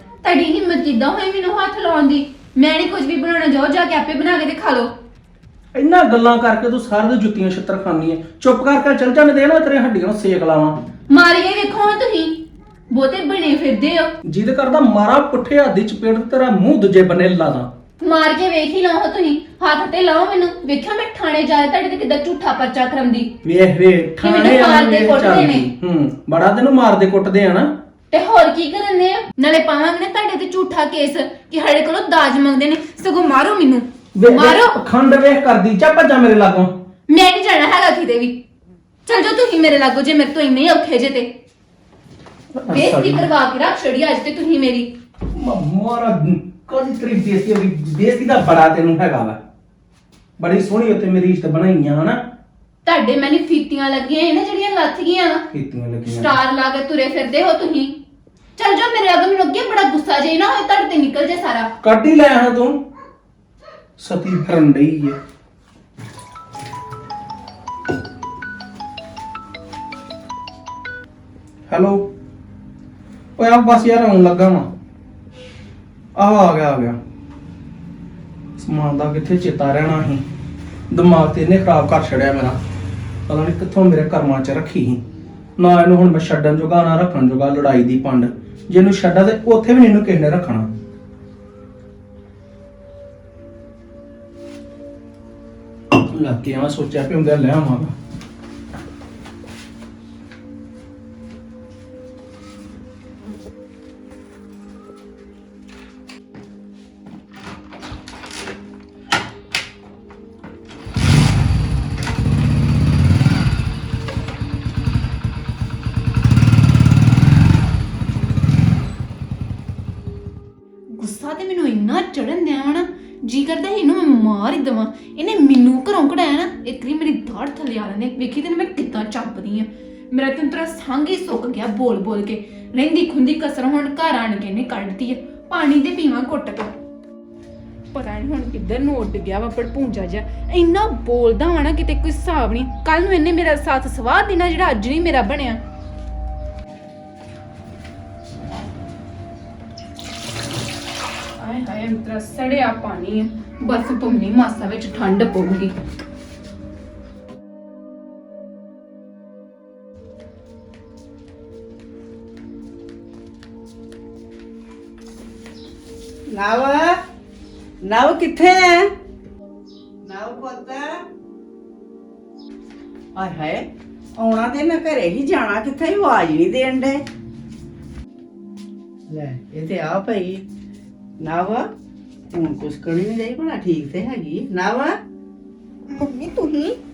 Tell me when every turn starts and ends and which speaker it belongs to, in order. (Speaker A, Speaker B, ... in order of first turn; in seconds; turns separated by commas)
Speaker A: 0.2-4.9, Speaker B: 5.7-10.7, Speaker A: 11.1-12.4, Speaker A: 12.9-14.1, Speaker B: 14.2-17.7, Speaker A: 18.0-23.3, Speaker B: 23.4-27.7, Speaker A: 24.2-25.6, Speaker A: 28.1-34.7, Speaker B: 34.2-36.7, Speaker A: 37.1-38.4, Speaker A: 39.0-41.3, Speaker B: 42.6-43.3, Speaker A: 42.7-44.9, Speaker B: 45.3-49.4, Speaker B: 50.4-52.2, Speaker A: 52.9-55.4, Speaker B: 55.5-56.3, Speaker A: 56.0-58.0, Speaker A: 58.6-61.7, Speaker B: 61.8-62.8, Speaker B: 64.0-65.2, Speaker B: 71.7-72.0, Speaker B: 73.4-74.7, Speaker B: 76.2-77.0, Speaker B: 78.6-80.2, Speaker B: 80.9-82.6, Speaker B: 83.3-85.0, Speaker B: 85.6-90.7, Speaker B: 96.0-97.9, Speaker A: 121.0-136.7, Speaker A: 137.9-145.6, Speaker A: 151.4-155.7, Speaker C: 166.3-167.0, Speaker C: 167.8-168.9, Speaker C: 170.0-171.0, Speaker C: 173.2-173.7, Speaker C: 174.2-177.0, Speaker C: 179.1-180.4, Speaker C: 181.2-181.7, Speaker C: 182.3-184.9, Speaker A: 185.9-186.7